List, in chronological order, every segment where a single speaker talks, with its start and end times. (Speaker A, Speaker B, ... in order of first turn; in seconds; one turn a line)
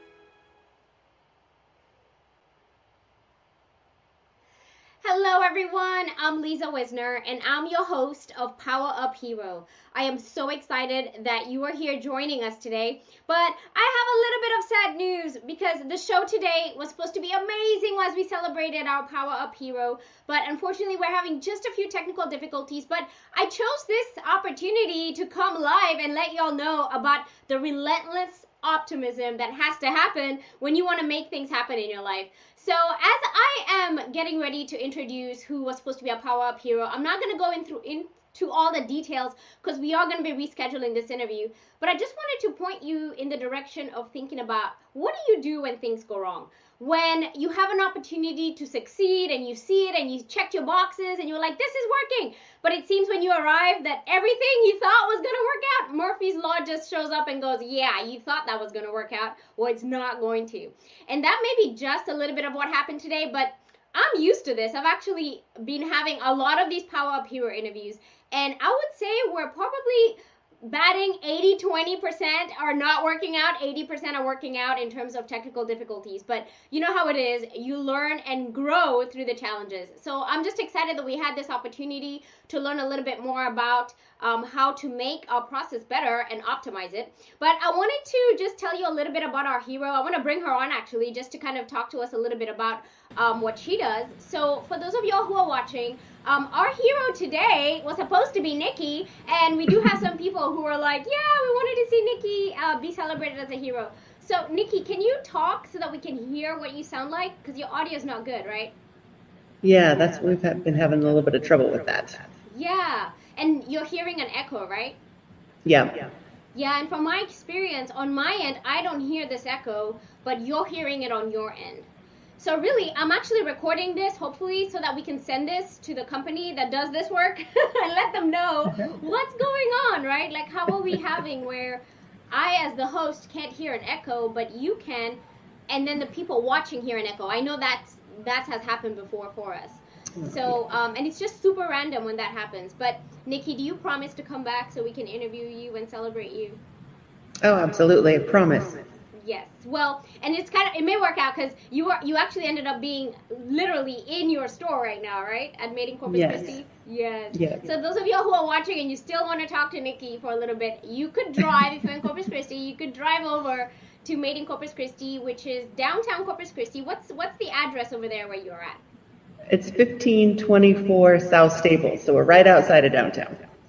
Speaker A: 5.0-108.7
Speaker B: 109.6-112.2
Speaker A: 112.5-115.0
Speaker B: 115.7-116.1
Speaker A: 116.5-121.9
Speaker A: 122.4-146.6
Speaker B: 147.4-148.9
Speaker A: 149.2-168.8
Speaker B: 156.1-156.6
Speaker B: 157.3-157.7
Speaker B: 169.5-173.4